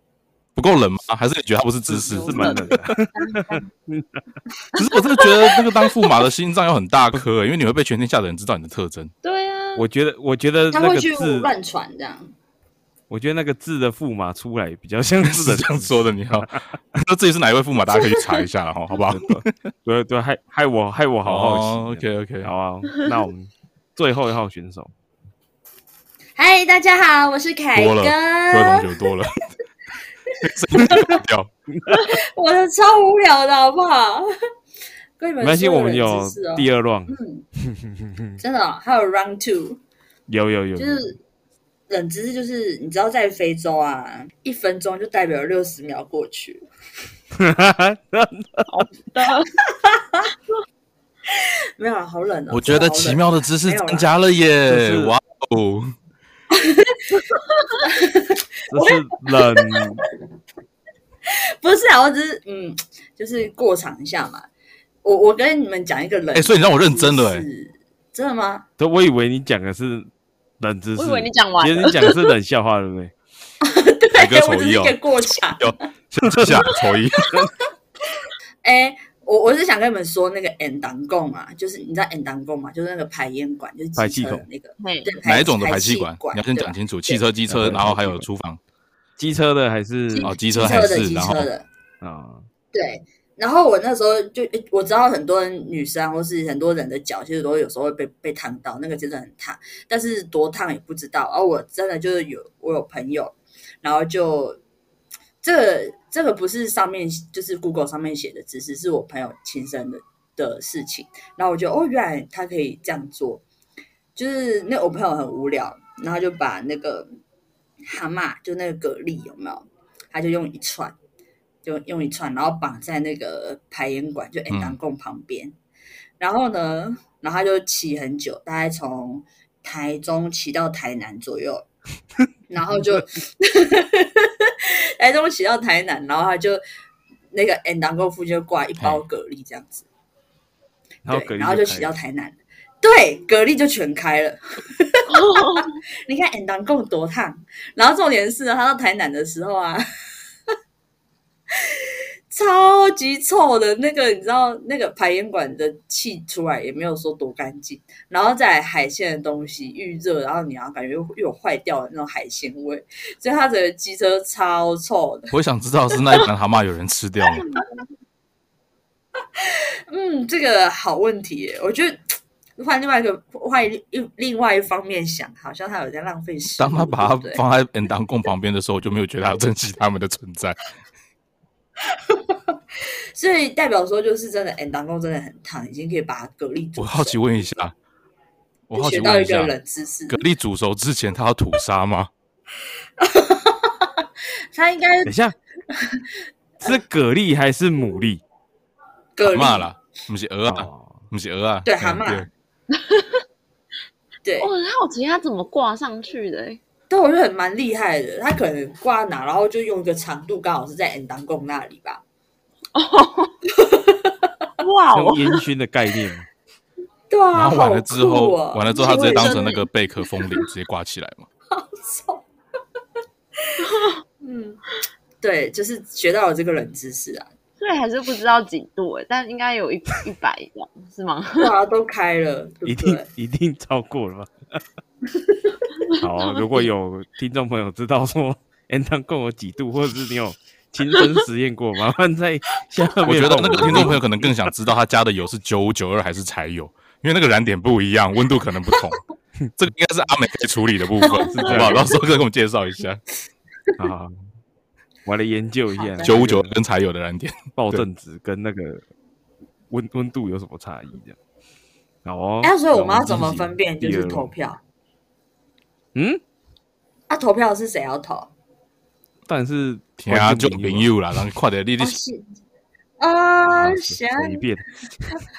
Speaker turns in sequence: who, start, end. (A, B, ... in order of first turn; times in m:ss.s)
0:00.6-0:02.7 A
0:01.9-0:04.2 B
0:02.1-0:03.6 C
0:04.7-0:09.1 A
0:05.2-0:05.6 C
0:09.2-0:09.8 C
0:09.8-0:11.5 B
0:10.7-0:12.3 D
0:13.1-0:16.6 B
0:15.2-0:19.5 A
0:18.9-0:24.9 B
0:21.2-0:22.5 A
0:26.4-0:28.9 D
0:27.7-0:29.4 A
0:30.4-0:31.5 A
0:30.4-0:31.2 D
0:31.8-0:32.0 B
0:32.0-0:34.2 D
0:35.2-0:37.4 D
0:35.4-0:38.4 B
0:38.4-0:39.8 D
0:40.3-0:41.0 B
0:40.8-0:41.2 D
0:41.9-0:46.6 D
0:47.4-0:48.8 B
0:48.7-0:49.5 C
0:49.6-0:50.3 D
0:51.3-0:54.1 D
0:52.5-0:55.9 A
0:54.7-0:55.2 B
0:56.5-0:57.2 D
0:57.8-0:59.0 D
0:58.7-1:00.0 B
1:01.3-1:04.5 D
1:05.0-1:08.6 D
1:06.3-1:07.4 A
1:08.8-1:10.1 B
1:10.6-1:13.1 B
1:11.0-1:12.2 C
1:13.6-1:15.7 D
1:14.1-1:15.0 A
1:15.6-1:17.4 A
1:16.2-1:16.6 B
1:18.6-1:27.2 D
1:24.0-1:24.4 B
1:24.8-1:25.1 C
1:25.2-1:28.6 A
1:27.5-1:28.3 B
1:29.2-1:30.8 B
1:30.1-1:31.6 D
1:30.2-1:31.5 A
1:32.0-1:32.4 B
1:32.7-1:44.6 D
1:45.4-1:53.4 D
1:54.2-1:57.1 D
1:57.8-2:01.0 D
2:01.6-2:05.5 D
2:04.5-2:04.8 A
2:06.2-2:11.7 D
2:12.5-2:16.6 D
2:17.3-2:19.8 D
2:21.0-2:21.9 B
2:21.1-2:29.8 D
2:25.1-2:25.8 C
2:31.5-2:45.4 D
2:45.3-2:47.4 A
2:49.4-2:52.0 D
2:52.6-2:57.4 D
2:56.6-3:00.7 A
3:02.1-3:07.2 D
3:06.8-3:07.7 A
3:08.7-3:09.5 A
3:08.7-3:10.2 D
3:10.1-3:12.1 A
3:13.0-3:15.1 D
3:15.0-3:15.3 B
3:15.7-3:16.0 D
3:16.6-3:18.2 B
3:19.2-3:19.7 D
3:19.2-3:22.3 A
3:20.5-3:21.0 B
3:21.6-3:22.3 D
3:22.7-3:23.2 C
3:24.2-3:24.5 D
3:24.4-3:26.6 C
3:26.9-3:32.0 D
3:32.7-3:33.4 C
3:33.5-3:34.3 D
3:34.6-3:35.4 C
3:34.9-3:36.3 B
3:37.1-3:39.5 D
3:37.3-3:41.2 A
3:38.8-3:39.6 C
3:41.5-3:42.2 D
3:43.4-3:44.6 D
3:43.6-3:44.0 C
3:45.2-3:47.3 D
3:47.6-3:51.5 C
3:51.4-3:53.0 D
3:52.6-3:54.6 B
3:55.1-3:55.6 D
3:55.9-3:56.7 C
3:56.0-4:04.0 B
4:03.0-4:09.0 A
4:09.6-4:13.0 A
4:11.0-4:11.9 D
4:11.3-4:11.9 B
4:13.8-4:14.1 B
4:15.0-4:16.6 B
4:15.8-4:16.2 D
4:16.0-4:17.8 A
4:17.6-4:18.8 B
4:19.7-4:21.2 B
4:22.0-4:24.3 B
4:22.4-4:24.6 D
4:25.9-4:26.2 B
4:27.1-4:28.3 D
4:29.3-4:30.9 B
4:30.0-4:32.0 A
4:31.8-4:32.2 D
4:33.0-4:34.5 D
4:33.4-4:35.2 B